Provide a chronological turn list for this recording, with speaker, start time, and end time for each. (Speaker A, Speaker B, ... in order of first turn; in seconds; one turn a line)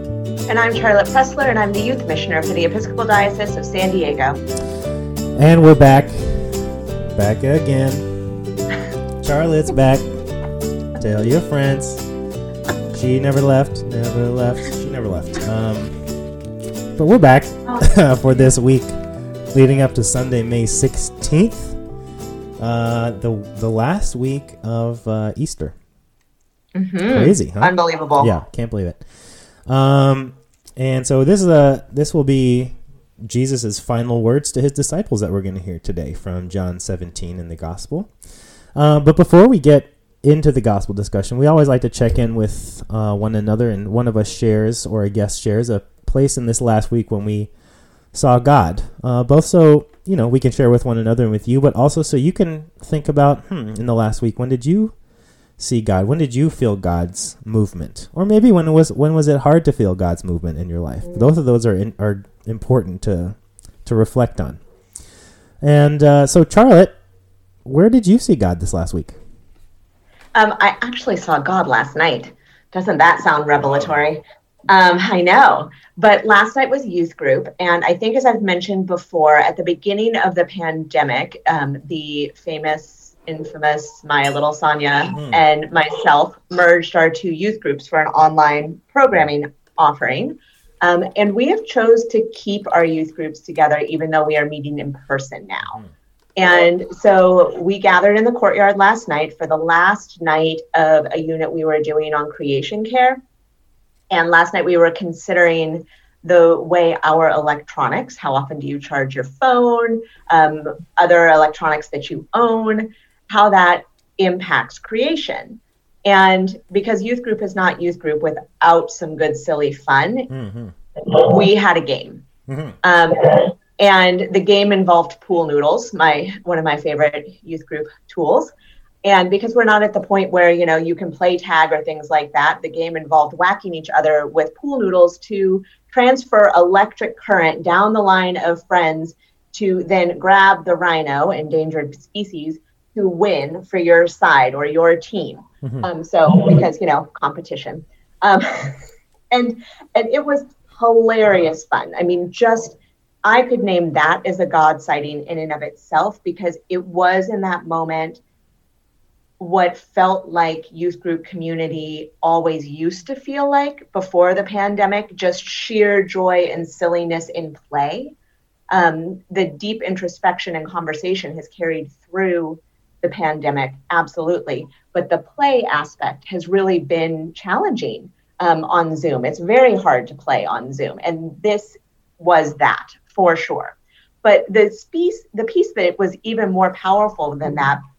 Speaker A: 0.5-4.4
Speaker B: 5.4-8.1
Speaker B: 9.2-10.1
Speaker B: 11.0-12.0
Speaker B: 12.9-16.0
Speaker B: 16.9-18.9
Speaker B: 19.5-21.8
Speaker B: 22.6-25.8
Speaker A: 26.8-28.3
Speaker B: 27.1-29.1
Speaker B: 29.7-38.1
Speaker B: 38.8-47.5
Speaker B: 48.1-55.0
Speaker B: 55.6-64.6
Speaker A: 61.0-61.3
Speaker B: 65.6-67.0
Speaker B: 67.6-69.2
Speaker A: 70.3-95.8
Speaker B: 73.6-74.0
Speaker B: 85.1-85.4
Speaker A: 96.4-103.2
Speaker A: 104.1-120.3
Speaker B: 120.3-120.7
Speaker A: 121.0-122.2
Speaker B: 122.5-122.8
Speaker A: 122.8-128.5
Speaker A: 129.0-158.2
Speaker A: 159.4-168.1
Speaker A: 168.7-187.8